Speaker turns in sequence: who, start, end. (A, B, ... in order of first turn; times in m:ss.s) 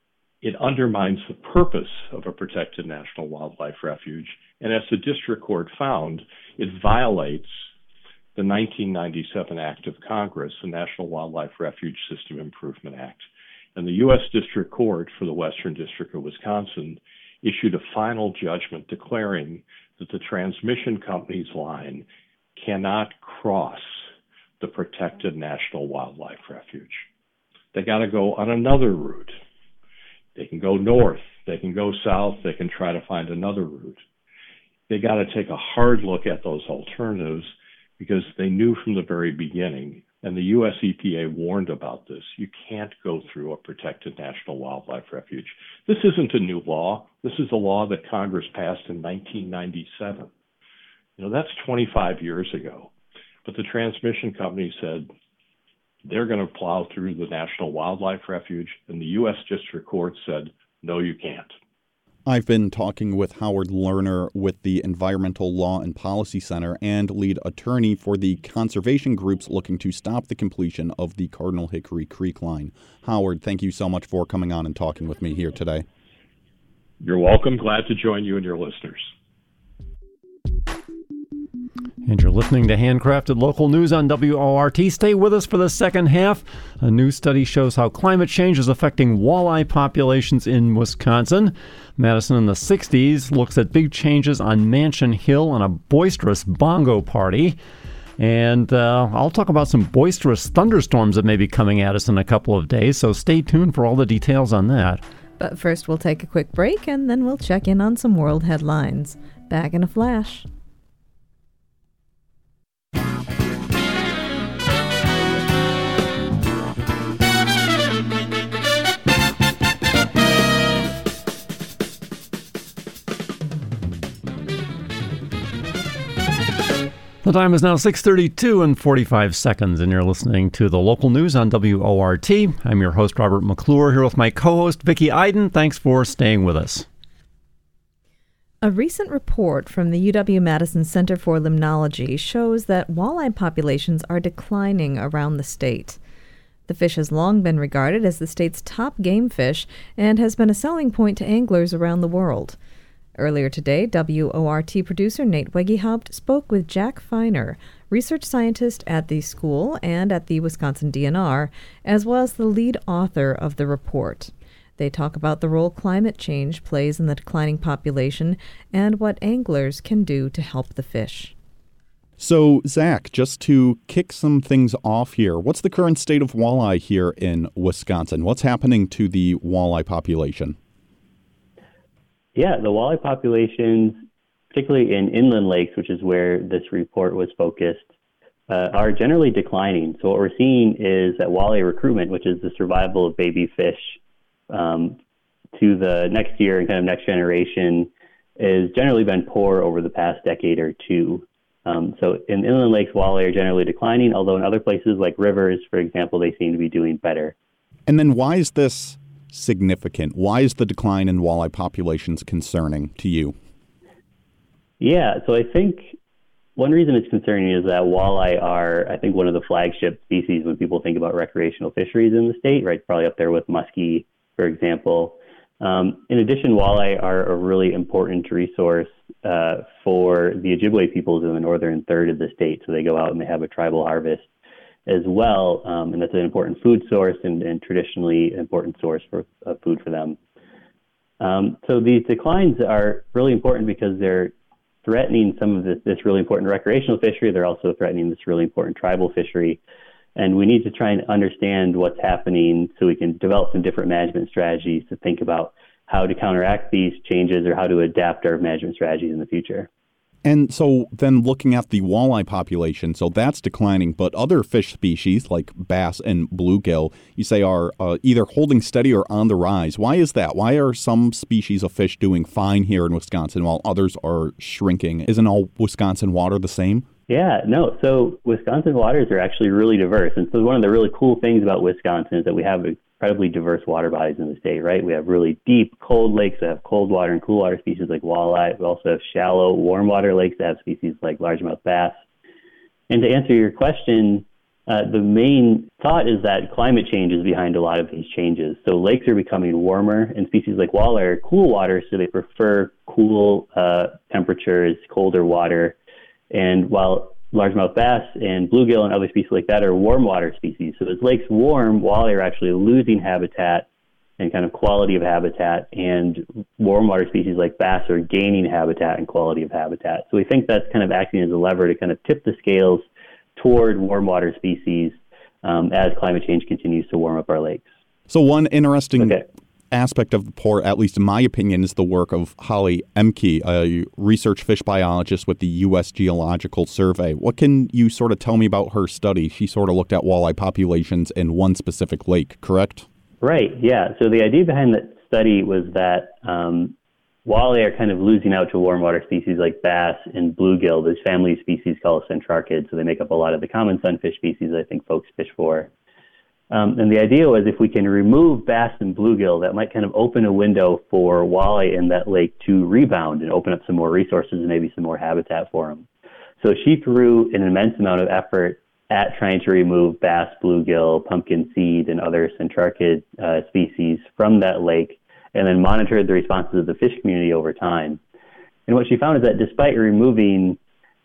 0:00.4-0:07.6 A
0:08.3-0:13.2 A
0:13.8-0:24.0 A
0:24.6-0:27.0 A
0:27.7-0:29.4 A
0:30.4-0:34.0 A
0:34.9-0:50.3 A
0:51.2-0:52.9 A
0:53.4-0:55.1 A
0:56.0-1:01.5 A
1:02.2-1:15.8 B
1:17.0-1:19.1 A
1:22.0-1:37.6 C
1:38.2-1:45.0 C
1:45.4-1:50.5 D
2:07.2-2:16.9 C
2:18.6-2:26.0 D
2:26.7-2:32.6 D
2:33.2-2:51.3 D
2:52.2-3:00.6 B
3:02.3-3:04.0 E
3:04.5-3:07.9 E
3:08.5-3:14.0 E
3:14.5-3:15.0 E
3:15.6-3:27.3 E
3:27.9-3:33.3 B
3:34.8-3:36.0 E
3:36.6-3:54.3 E
3:54.9-4:00.2 E
4:01.2-4:04.3 E
4:04.8-4:09.6 E
4:10.2-4:19.7 E
4:20.2-4:36.9 B
4:37.1-4:52.0 E
4:52.9-5:05.8 E
5:06.3-5:13.7 E
5:14.2-5:27.7 E
5:28.1-5:42.8 B
5:43.2-5:46.7 E
5:47.2-5:55.7 E
5:56.5-6:05.8 E
6:06.4-6:18.0 E
6:18.7-6:20.6 E